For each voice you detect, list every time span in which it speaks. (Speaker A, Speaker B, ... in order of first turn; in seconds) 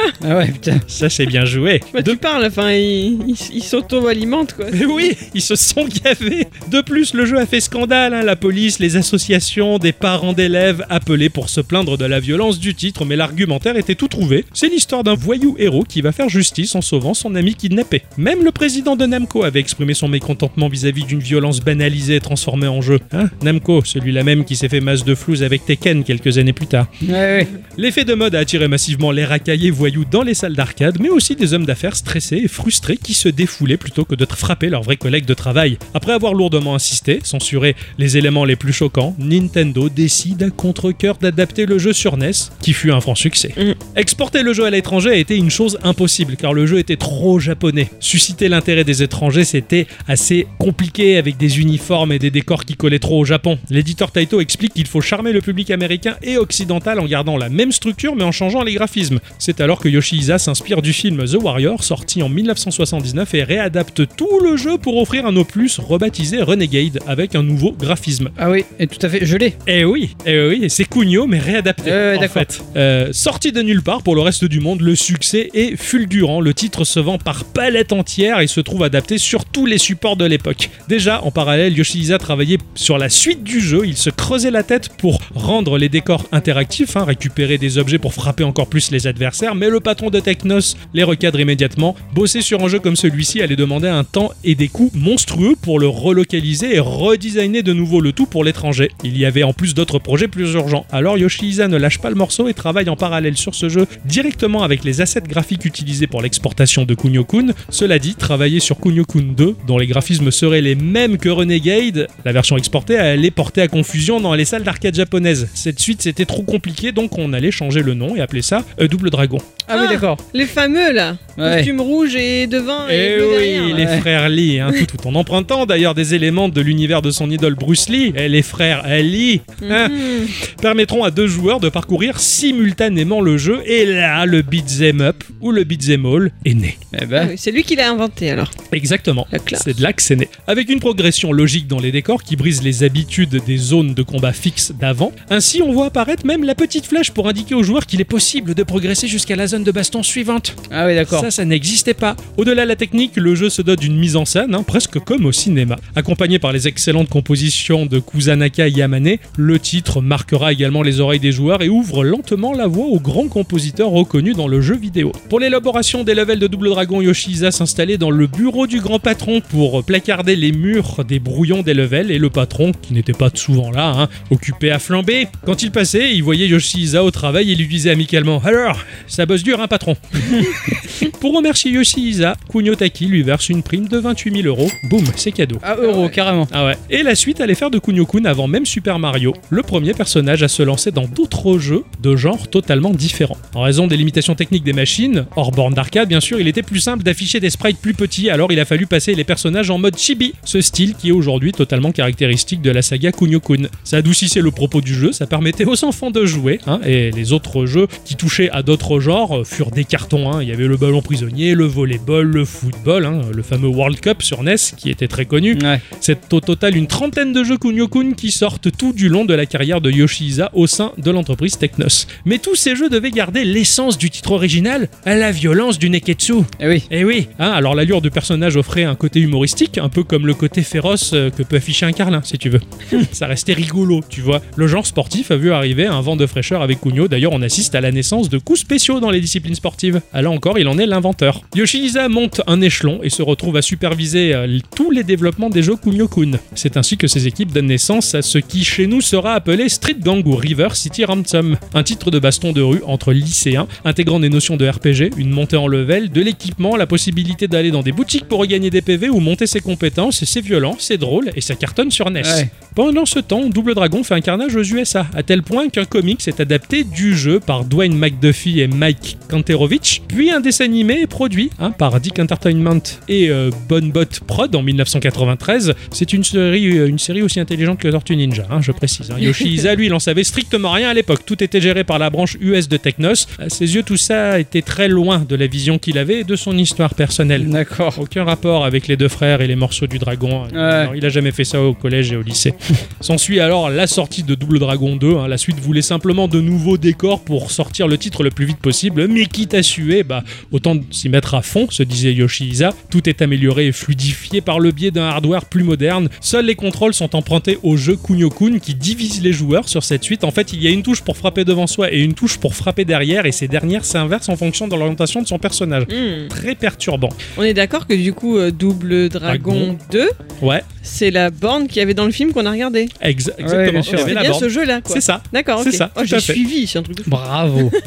Speaker A: 0.2-0.8, 27.0-27.5, 68.4-69.6, 71.8-72.5, 119.7-120.2, 121.4-121.7, 123.5-124.1, 136.9-137.3, 150.7-151.3, 185.6-186.5, 215.5-215.8, 226.6-226.9, 262.2-262.5, 287.4-288.0, 290.5-290.9, 323.4-324.1, 327.0-327.7
Speaker B: 0.9-2.2, 4.7-26.9, 27.7-68.3, 69.7-119.6, 122.8-136.8, 138.7-185.7, 186.5-317.2, 319.3-319.7, 323.0-326.4
Speaker C: 1.9-5.1, 119.7-123.8, 129.6-130.3, 137.2-138.5, 139.3-139.7, 315.9-316.3, 317.4-320.1, 320.8-322.9, 323.9-327.7